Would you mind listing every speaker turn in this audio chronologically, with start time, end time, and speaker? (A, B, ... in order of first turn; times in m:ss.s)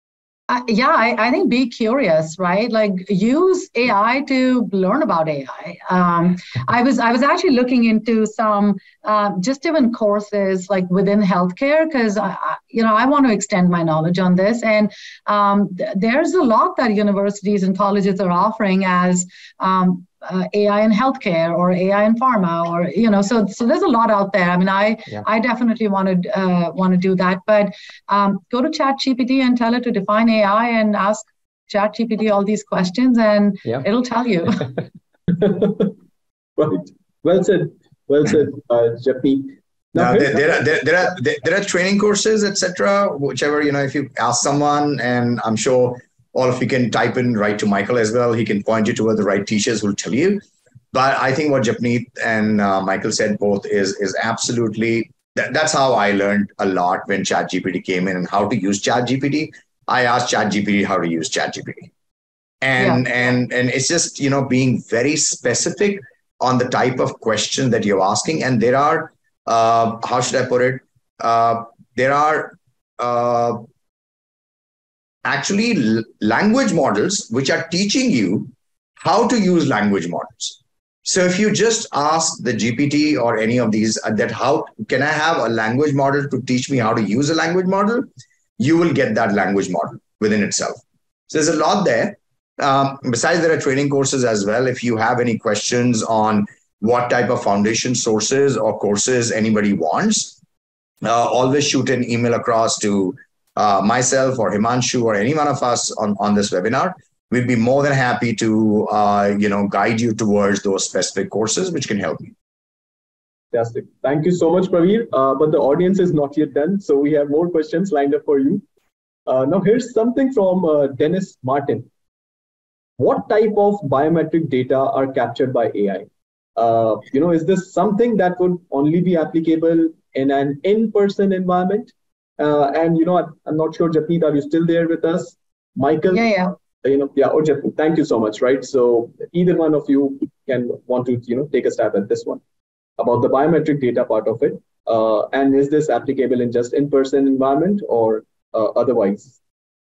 0:00.5-0:34.7 A
0:35.3-0:36.0 B
0:36.6-0:40.4 B
0:39.9-1:01.9 C
1:02.6-1:13.6 C
1:15.2-1:28.1 C
1:28.6-1:40.4 C
1:41.0-1:52.3 C
1:53.5-1:58.6 B
1:59.2-2:01.9 B
2:03.0-2:22.4 B
2:16.1-2:16.5 A
2:23.0-2:29.4 B